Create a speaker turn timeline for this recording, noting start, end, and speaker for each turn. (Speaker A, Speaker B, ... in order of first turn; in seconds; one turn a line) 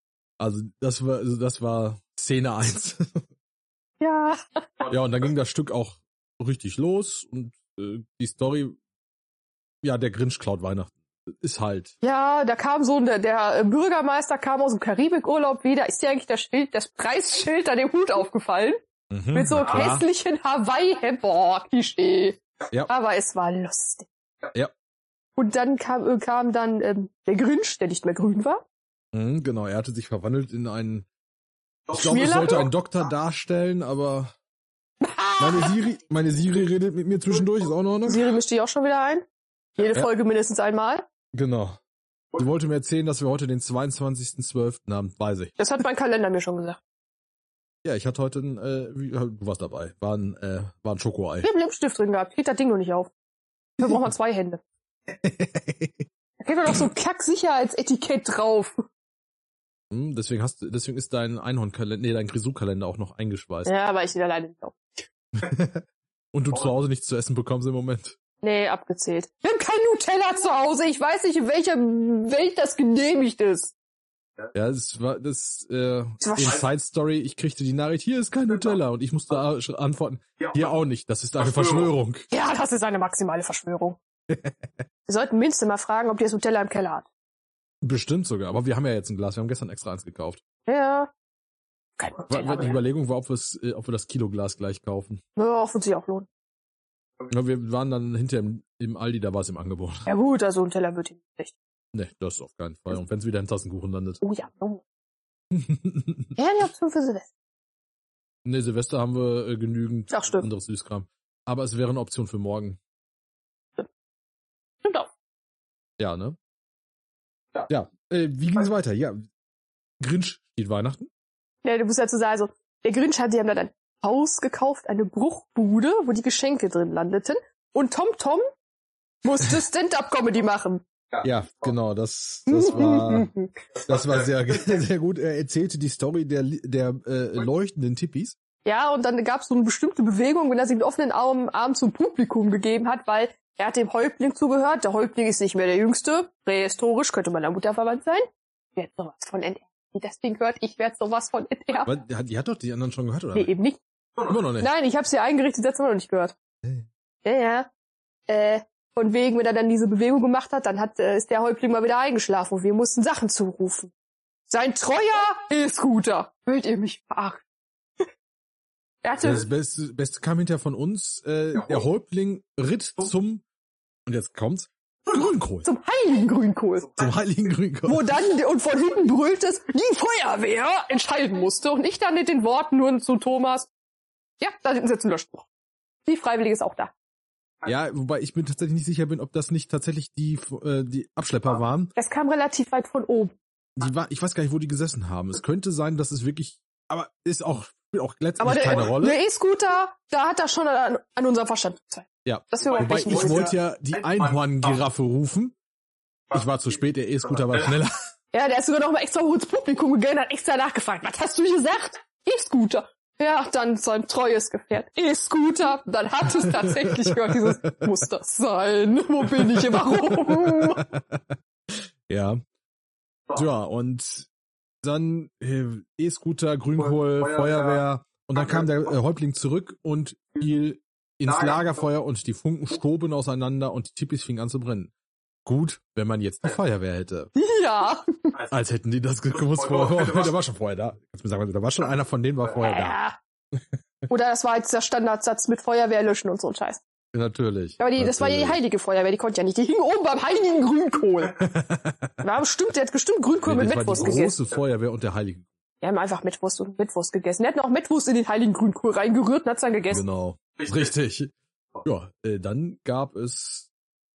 Speaker A: 0.4-3.2
Speaker B: 4.0-4.9
Speaker A: 4.9-8.8
Speaker A: 9.8-11.9
Speaker B: 12.0-18.8
Speaker A: 19.1-20.0
Speaker B: 19.3-24.1
Speaker B: 25.4-28.6
Speaker A: 29.1-31.1
Speaker A: 31.9-34.3
Speaker B: 31.9-32.7
Speaker B: 35.0-35.7
Speaker A: 35.4-38.2
Speaker B: 38.1-39.2
Speaker B: 39.8-41.0
Speaker A: 41.3-41.8
Speaker A: 42.3-45.5
Speaker B: 45.6-46.8
Speaker A: 47.8-51.5
Speaker B: 51.4-53.1
Speaker B: 53.8-54.6
Speaker A: 55.2-56.0
Speaker B: 56.4-58.8
Speaker A: 59.9-63.7
Speaker B: 63.6-65.0
Speaker A: 65.4-68.2
Speaker B: 68.4-73.7
Speaker A: 74.5-82.2
Speaker B: 76.2-76.6
Speaker B: 82.3-84.0
Speaker A: 84.3-84.7
Speaker B: 85.1-87.1
Speaker A: 87.8-90.4
Speaker B: 90.7-91.1
Speaker B: 92.0-92.8
Speaker A: 92.3-95.2
Speaker B: 95.4-96.3
Speaker A: 97.3-100.1
Speaker B: 100.1-101.5
Speaker A: 101.9-104.2
Speaker B: 104.2-104.8
Speaker A: 105.5-106.3
Speaker B: 106.4-107.3
Speaker A: 108.4-112.8
Speaker B: 110.1-110.5
Speaker B: 114.8-115.1
Speaker A: 116.0-116.3
Speaker A: 117.7-119.3
Speaker A: 120.0-121.1
Speaker B: 121.6-128.4
Speaker B: 129.2-130.8
Speaker A: 131.2-133.3
Speaker B: 132.5-133.5
Speaker A: 133.8-138.3
Speaker B: 138.6-151.9
Speaker A: 151.8-153.5
Speaker B: 153.3-153.8
Speaker A: 154.2-154.7
Speaker B: 154.6-156.3
Speaker B: 157.2-157.7
Speaker B: 158.3-163.9
Speaker B: 164.5-167.4
Speaker B: 169.0-169.4
Speaker A: 169.2-173.4
Speaker A: 174.1-175.7
Speaker B: 175.6-177.0
Speaker A: 177.0-178.1
Speaker B: 177.8-183.7
Speaker B: 184.4-185.4
Speaker B: 186.1-186.9
Speaker A: 187.6-191.9
Speaker B: 191.9-193.3
Speaker A: 193.8-199.2
Speaker B: 198.4-203.5
Speaker A: 202.2-205.5
Speaker A: 206.3-208.1
Speaker B: 208.3-220.8
Speaker A: 216.5-217.8
Speaker A: 219.4-222.4
Speaker A: 223.3-224.3
Speaker A: 224.8-234.9
Speaker A: 235.4-237.3
Speaker B: 237.3-238.3
Speaker A: 238.5-243.0
Speaker B: 242.6-243.2
Speaker B: 244.1-246.8
Speaker A: 247.1-248.6
Speaker B: 247.8-251.4
Speaker A: 251.4-252.1
Speaker B: 252.2-254.4
Speaker A: 253.4-255.5
Speaker B: 255.8-260.0
Speaker A: 259.9-263.7